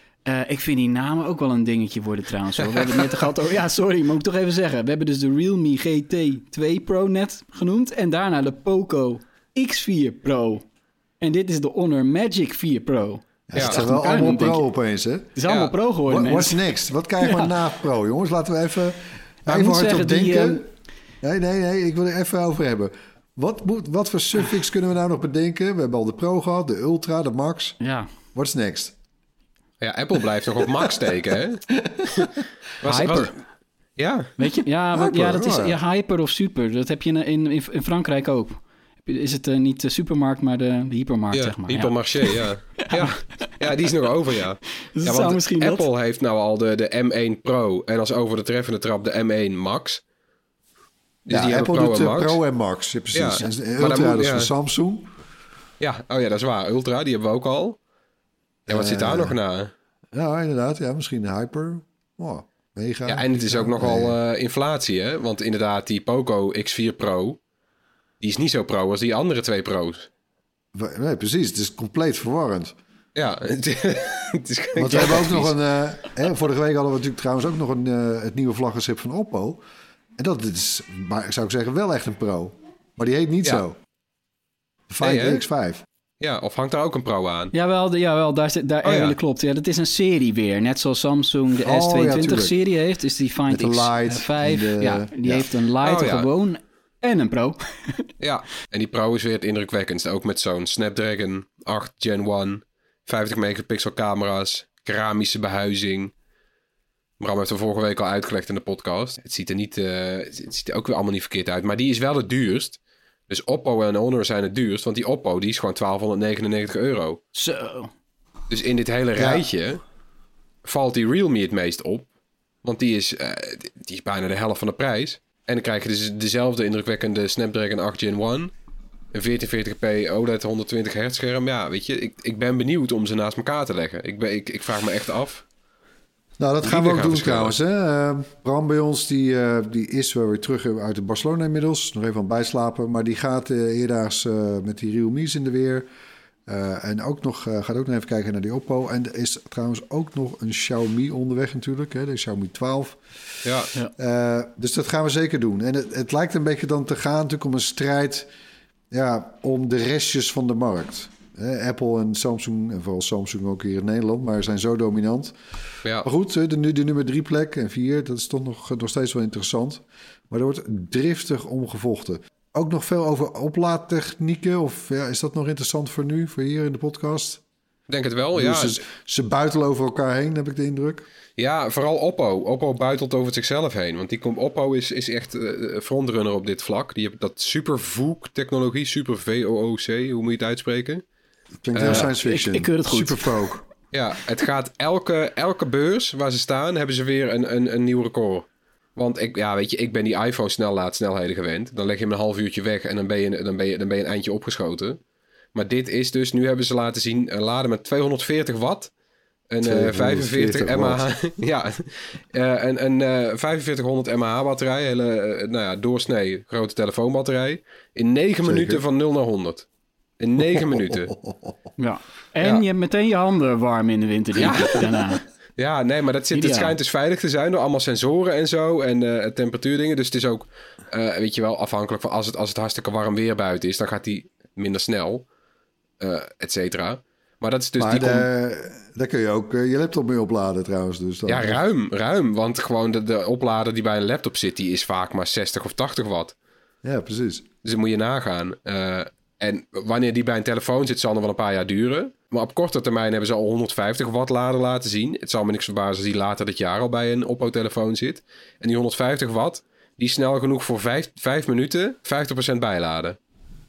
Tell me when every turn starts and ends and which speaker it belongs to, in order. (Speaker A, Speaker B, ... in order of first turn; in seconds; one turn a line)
Speaker A: 0.2-10.6
Speaker A: 11.2-14.6
Speaker B: 13.5-15.4
Speaker C: 13.6-13.8
Speaker A: 15.4-16.6
Speaker C: 15.5-15.7
Speaker B: 16.1-20.7
Speaker A: 17.2-17.5
Speaker A: 19.5-20.6
Speaker B: 21.2-27.8
Speaker A: 27.8-28.1
Speaker B: 28.3-28.9
Speaker C: 29.8-33.3
Speaker B: 30.6-31.1
Speaker B: 31.8-32.3
Speaker A: 32.9-33.3
Speaker C: 34.0-34.4
Speaker A: 34.4-43.8
Speaker B: 34.9-35.8
Speaker C: 41.3-50.0
Speaker A: 44.9-45.9
Speaker C: 51.3-52.4
Speaker B: 51.3-55.1
Speaker C: 53.1-54.5
Speaker C: 55.8-57.8
Speaker B: 58.7-59.4
Speaker C: 58.7-59.7
Speaker B: 60.1-64.2
Speaker C: 63.1-67.4
Speaker C: 68.2-70.1
Speaker B: 70.7-72.8
Speaker C: 73.2-75.5
Speaker B: 74.8-79.6
Speaker B: 80.2-83.8
Speaker B: 84.9-85.8
Speaker C: 85.0-85.4
Speaker C: 86.2-87.5
Speaker A: 87.5-98.1
Speaker C: 88.8-89.2
Speaker B: 91.6-92.6
Speaker B: 93.5-95.5
Speaker C: 95.8-96.3
Speaker C: 98.2-106.1
Speaker C: 107.2-117.2
Speaker A: 117.3-117.9
Speaker C: 118.5-119.8
Speaker B: 119.2-119.5
Speaker C: 120.7-122.1
Speaker C: 122.6-128.5
Speaker C: 129.1-135.4
Speaker B: 136.4-145.9
Speaker C: 136.6-137.6
Speaker B: 146.5-153.4
Speaker C: 153.4-153.7
Speaker B: 154.0-158.3
Speaker B: 158.9-165.3
Speaker B: 166.0-177.4
Speaker C: 177.9-178.8
Speaker B: 178.3-181.1
Speaker C: 181.4-191.0
Speaker B: 191.6-193.7
Speaker C: 191.7-192.1
Speaker A: 191.8-193.4
Speaker C: 193.9-205.0
Speaker C: 205.5-208.9
Speaker C: 209.5-219.7
Speaker B: 209.6-211.1
Speaker B: 218.4-218.8
Speaker C: 220.2-221.1
Speaker B: 220.6-221.3
Speaker A: 221.8-225.2
Speaker C: 224.4-225.0
Speaker C: 225.6-235.3
Speaker A: 226.3-226.8
Speaker C: 236.0-238.3
Speaker B: 237.8-241.6
Speaker C: 241.3-246.3
Speaker B: 246.8-247.5
Speaker C: 247.6-263.2